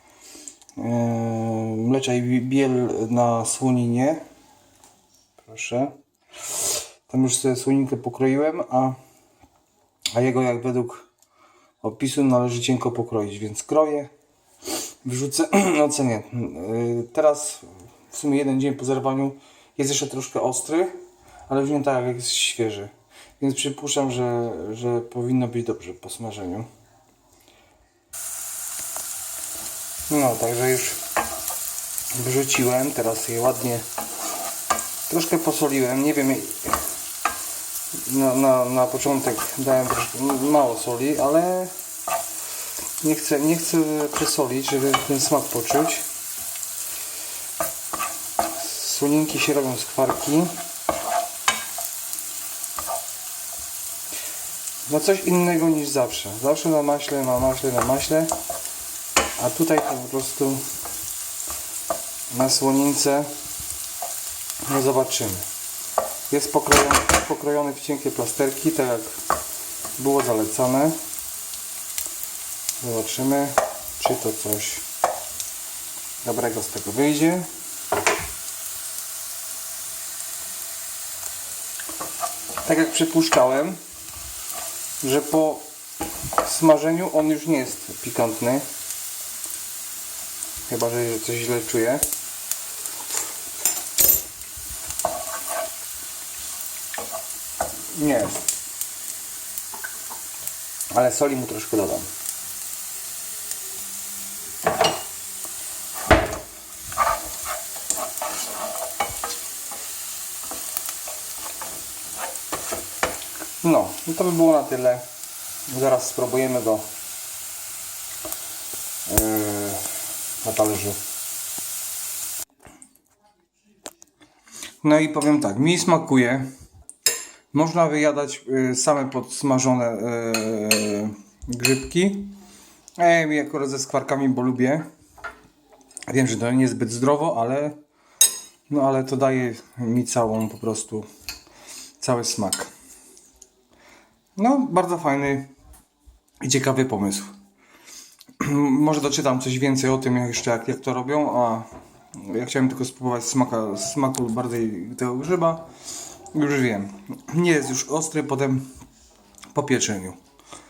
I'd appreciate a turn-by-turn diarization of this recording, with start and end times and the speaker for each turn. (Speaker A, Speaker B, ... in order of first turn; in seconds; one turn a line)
Speaker A: 0.8-4.2
Speaker A: 5.4-6.0
Speaker A: 7.1-9.0
Speaker A: 10.1-11.1
Speaker A: 11.8-14.1
Speaker A: 15.0-20.9
Speaker A: 21.5-26.7
Speaker A: 30.1-31.0
Speaker A: 32.2-33.9
Speaker A: 35.1-36.8
Speaker A: 38.0-41.7
Speaker A: 43.0-46.0
Speaker A: 48.6-50.6
Speaker A: 54.9-58.3
Speaker A: 59.4-60.6
Speaker A: 62.3-63.3
Speaker A: 64.7-65.5
Speaker A: 66.3-69.2
Speaker A: 70.0-71.0
Speaker A: 72.8-74.8
Speaker A: 76.2-77.5
Speaker A: 82.7-83.8
Speaker A: 85.0-85.7
Speaker A: 86.4-88.7
Speaker A: 90.7-92.0
Speaker A: 97.9-98.4
Speaker A: 100.9-102.1
Speaker A: 113.6-115.1
Speaker A: 115.7-116.9
Speaker A: 119.1-119.8
Speaker A: 120.4-121.0
Speaker A: 124.8-126.5
Speaker A: 127.5-132.4
Speaker A: 133.0-134.8
Speaker A: 136.1-137.8
Speaker A: 138.7-141.1
Speaker A: 142.0-142.7
Speaker A: 144.4-145.5
Speaker A: 146.4-147.3
Speaker A: 148.4-155.7
Speaker A: 156.3-158.7
Speaker A: 159.5-160.2